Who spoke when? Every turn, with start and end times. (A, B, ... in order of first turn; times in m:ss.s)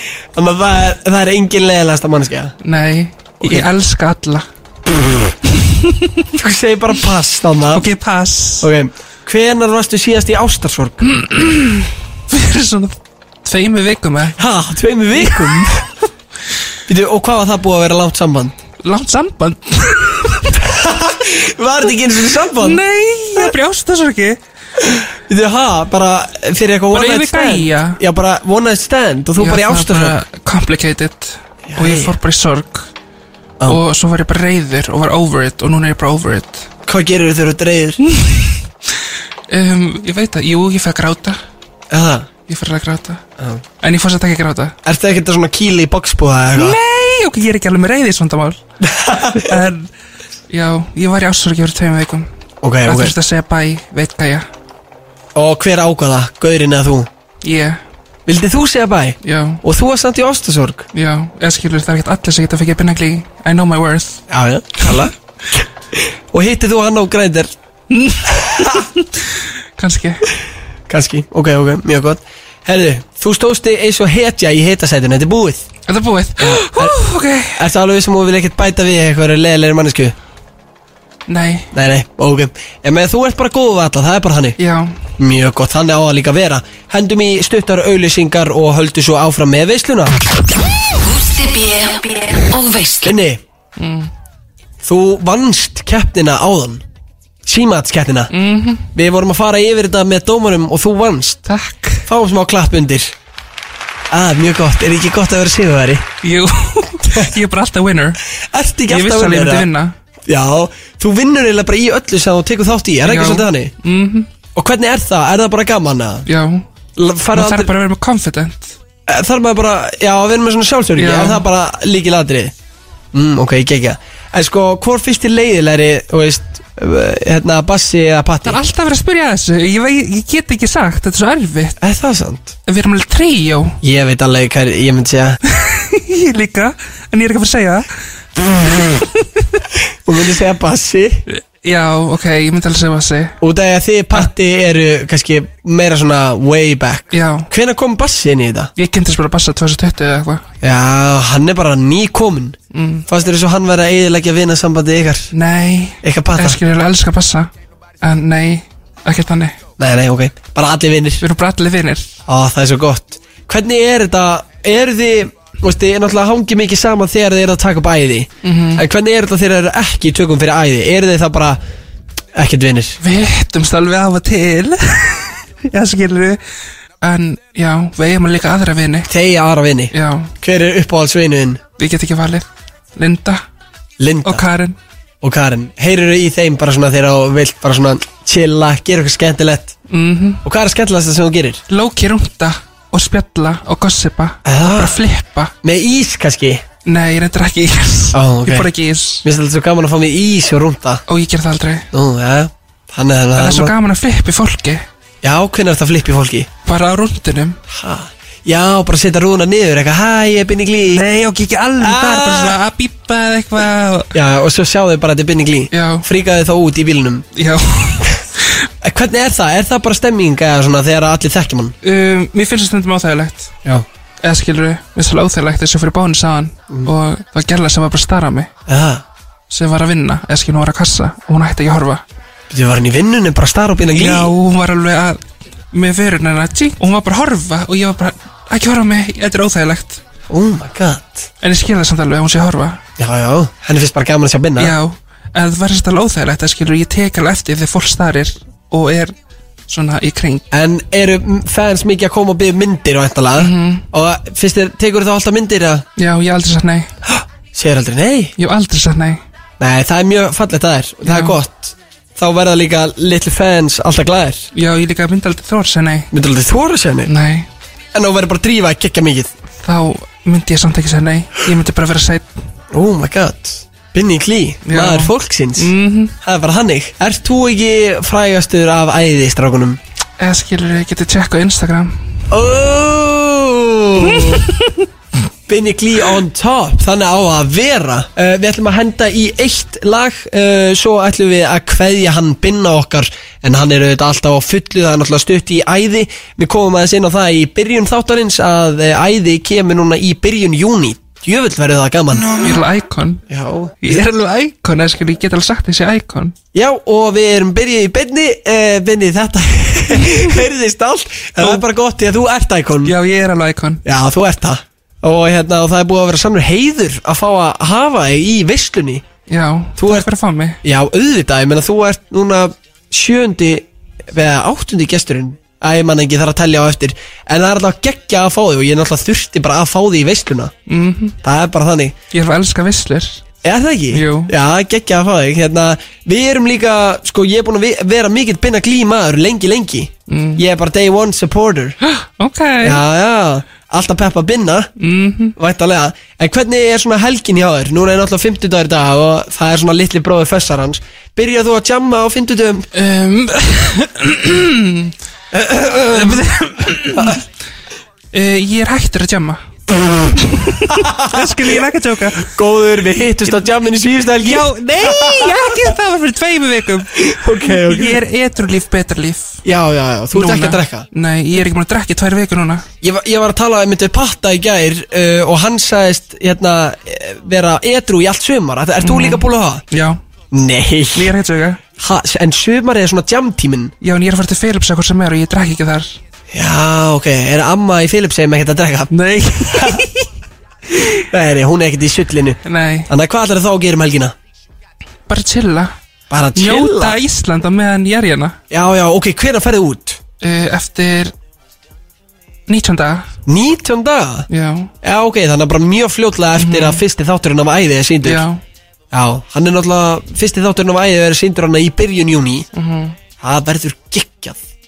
0:00.3-0:02.6 A
0:02.6-0:04.5 B
0:03.4-0:03.7 A
0:04.9-0:05.2 A
0:05.5-0:06.3 B
0:06.4-0:07.9 A
0:07.7-0:08.7 B
0:08.6-0:11.1 A
0:11.0-0:14.4 B
0:14.4-0:15.9 A
0:15.2-0:15.6 B
0:16.9-0:18.6 A
0:18.8-0:20.6 B
0:20.6-0:22.8 A
0:22.6-0:24.4 B
0:24.8-0:30.2 A
0:26.9-0:28.0 B
0:29.4-0:32.9 B
0:31.7-0:32.1 A
0:33.7-0:36.7 B
0:36.9-0:38.0 A
0:38.0-0:38.6 B
0:39.5-0:41.4 B
0:41.9-0:42.3 A
0:42.5-0:43.2 B
0:43.8-0:44.8 B
0:44.8-0:46.8 A
0:46.6-0:48.6 B
0:48.8-0:49.6 A
0:49.2-0:49.9 B
0:50.5-0:52.3 B
0:52.6-0:53.2 A
0:52.8-0:54.5 B
0:55.4-0:57.1 A
0:57.4-0:57.8 B
0:58.3-1:00.9 A
0:59.2-0:59.6 B
1:00.9-1:04.3 B
1:04.3-1:07.5 A
1:07.9-1:09.1 B
1:08.2-1:08.9 A
1:09.8-1:10.3 B
1:10.9-1:15.7 A
1:15.9-1:17.6 B
1:16.4-1:17.0 A
1:17.6-1:20.2 A
1:21.3-1:21.7 B
1:21.7-1:24.6 A
1:24.6-1:25.0 B
1:25.2-1:30.2 A
1:31.0-1:33.2 C
1:33.0-1:33.4 A
1:33.8-1:34.1 B
1:34.8-1:36.8 A
1:37.4-1:38.3 A
1:38.3-1:38.9 B
1:38.9-1:41.5 A
1:41.5-1:42.1 B
1:42.1-1:43.2 A
1:44.1-1:46.1 A
1:46.2-1:48.2 B
1:48.4-1:49.7 A
1:48.9-1:50.0 B
1:50.3-1:53.7 A
1:53.0-1:54.3 B
1:54.6-1:56.3 A
1:56.3-1:56.7 B
1:57.0-1:57.7 A
1:57.3-1:58.8 B
1:59.1-2:02.5 A
2:01.0-2:01.5 B
2:03.1-2:08.6 A
2:08.4-2:11.8 B
2:11.8-2:12.6 A
2:12.7-2:13.8 B
2:13.8-2:15.4 A
2:15.5-2:17.9 B
2:18.4-2:19.6 B
2:20.0-2:21.3 A
2:21.3-2:23.4 B
2:23.4-2:28.7 A
2:27.1-2:27.5 B
2:28.8-2:30.4 B
2:30.6-2:32.6 A
2:32.7-2:33.1 B
2:33.1-2:35.3 A
2:35.3-2:37.5 B
2:36.0-2:36.6 A
2:38.0-2:39.6 B
2:39.8-2:41.2 A
2:41.2-2:42.2 B
2:42.3-2:51.6 A
2:48.4-2:48.8 B
2:52.4-2:53.0 A
2:53.0-2:56.4 B
2:57.0-2:59.1 B
2:59.1-3:01.6 A
2:59.9-3:00.3 B
3:01.8-3:03.4 B
3:04.0-3:04.4 A
3:04.2-3:04.8 B
3:05.2-3:09.8 A
3:09.9-3:10.4 B
3:10.4-3:11.6 A
3:11.7-3:15.5 B
3:14.4-3:15.0 A
3:15.6-3:16.6 A
3:16.8-3:19.3 B
3:18.1-3:18.7 A
3:19.2-3:21.0 A
3:21.1-3:21.9 B
3:21.9-3:23.8 A
3:23.4-3:24.8 B
3:25.2-3:26.5 A
3:26.6-3:27.6 B
3:27.7-3:31.0 A
3:30.9-3:34.1 B
3:31.8-3:32.6 A
3:34.1-3:37.3 A
3:35.7-3:36.1 B
3:37.4-3:38.6 B
3:38.8-3:41.8 A
3:41.8-3:43.5 B
3:44.2-3:48.5 B
3:48.7-3:49.0 A
3:49.5-3:52.0 B
3:52.5-3:54.3 A
3:54.0-3:55.2 B
3:55.7-4:00.0 B
4:00.3-4:01.3 A
4:01.4-4:02.8 B
4:03.0-4:04.8 A
4:04.6-4:09.2 B
4:09.7-4:10.5 B
4:10.5-4:15.8 A
4:13.4-4:13.9 B
4:16.0-4:16.9 B
4:17.0-4:18.3 A
4:18.4-4:19.2 B
4:19.6-4:24.5 A
4:21.0-4:21.4 B
4:24.5-4:26.1 B
4:26.1-4:27.1 A
4:27.1-4:27.5 B
4:27.9-4:29.3 A
4:29.6-4:32.3 B
4:32.7-4:39.8 A
4:34.6-4:36.2 B
4:40.2-4:42.1 B
4:42.3-4:44.4 A
4:44.0-4:44.9 B
4:45.5-5:02.4 A
5:02.4-5:03.2 B
5:03.3-5:04.0 A
5:03.8-5:06.4 B
5:06.5-5:13.0 A
5:11.4-5:11.6 B
5:12.8-5:13.8 B
5:13.8-5:19.0 A
5:19.3-5:20.6 B
5:19.8-5:20.1 A
5:20.6-5:30.5 A
5:30.7-5:31.2 B
5:31.2-5:32.0 A
5:32.1-5:33.2 B
5:33.4-5:41.8 A
5:33.9-5:34.3 B
5:40.1-5:40.4 B
5:41.8-5:42.8 B
5:42.6-5:44.7 A
5:44.8-5:45.4 B
5:45.4-5:52.7 A
5:52.7-5:55.0 B
5:55.3-5:56.3 A
5:55.8-5:57.2 B
5:56.9-5:57.2 A
5:58.1-5:59.4 B
6:00.0-6:02.4 B
6:00.8-6:01.3 A
6:02.3-6:05.7 A
6:04.2-6:09.4 B
6:06.9-6:08.0 A
6:09.4-6:10.9 A
6:10.1-6:12.7 B
6:12.8-6:19.6 A
6:18.8-6:20.0 B
6:20.3-6:21.1 A
6:21.0-6:21.6 B
6:21.8-6:23.7 A
6:23.8-6:26.0 B
6:26.3-6:28.9 A
6:28.9-6:30.1 B
6:29.4-6:29.8 A
6:30.7-6:31.1 B
6:31.1-6:34.2 A
6:32.4-6:32.9 B
6:35.1-6:35.8 B
6:36.1-6:37.0 A
6:36.4-6:38.4 B
6:38.5-6:40.0 A
6:40.2-6:41.1 B
6:42.5-6:43.1 B
6:43.3-6:44.3 A
6:44.3-6:44.7 B
6:44.8-6:48.2 A
6:46.4-6:46.8 B
6:48.0-6:48.4 B
6:48.9-6:52.5 A
6:52.5-6:53.0 B
6:53.2-6:54.4 A